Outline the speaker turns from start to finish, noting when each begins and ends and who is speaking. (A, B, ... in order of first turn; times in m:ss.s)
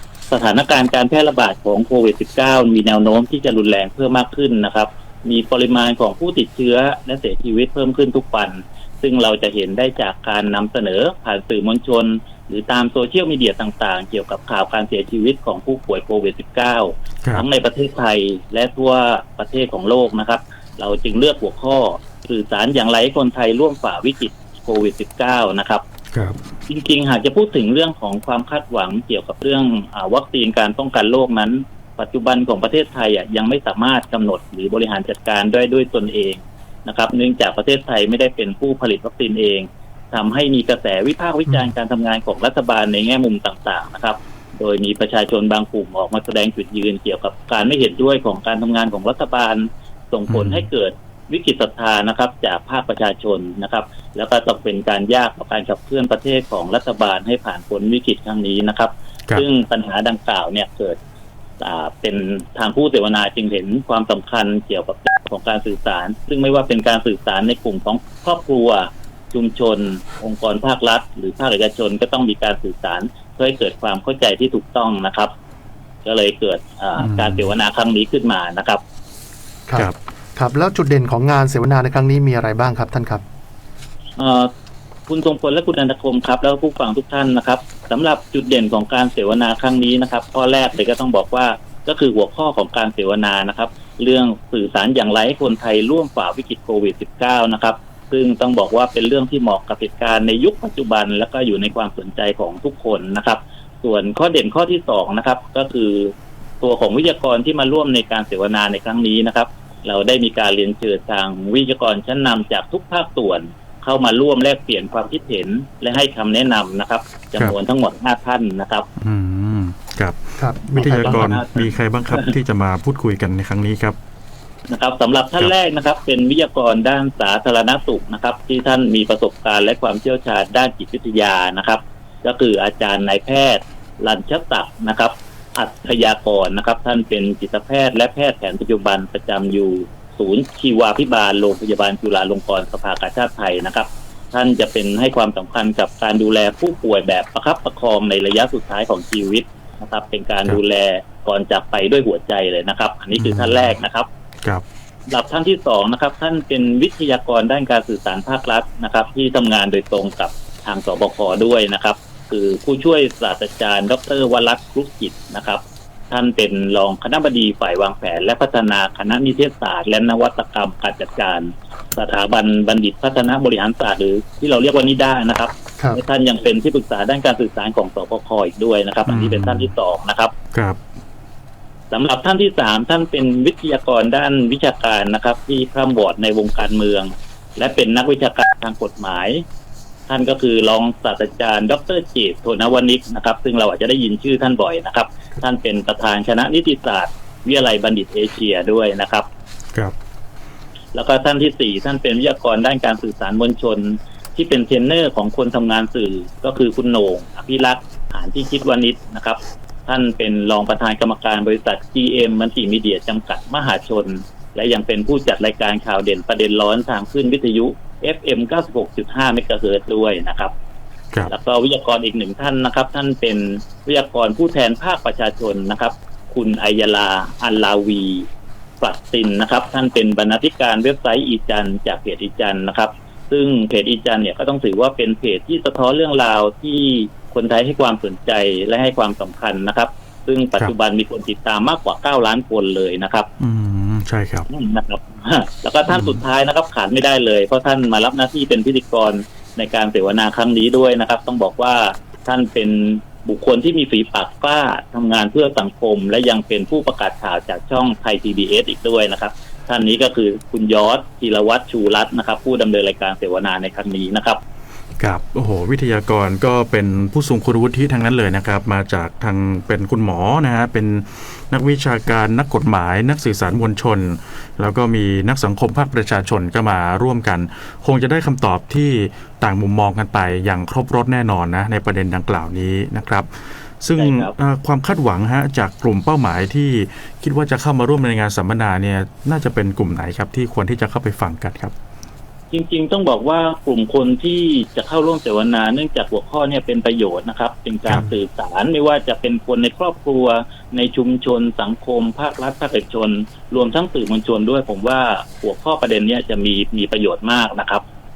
0:00.3-0:25.8 A
0:26.1-0:26.4 B
0:26.7-1:01.0 A
0:50.3-0:50.7 B
1:01.6-1:15.3 A
1:16.0-1:18.8 A
1:17.0-1:17.5 B
1:19.7-1:23.2 C
1:24.2-1:24.5 A
1:25.1-1:58.9 A
1:59.0-2:04.0 B
2:00.4-2:01.3 C
2:00.8-2:02.4 A
2:04.7-2:34.1 A
2:33.2-2:33.7 B
2:35.1-3:00.3 A
2:59.1-2:59.7 B
3:01.9-3:09.4 A
3:10.1-3:19.3 A
3:20.9-3:40.5 A
3:41.3-3:48.3 A
3:48.8-4:03.3 A
4:03.4-4:04.5 B
4:04.5-4:24.4 A
4:05.9-4:06.2 B
4:25.0-4:51.7 B
4:44.0-4:44.3 A
4:52.5-5:07.8 A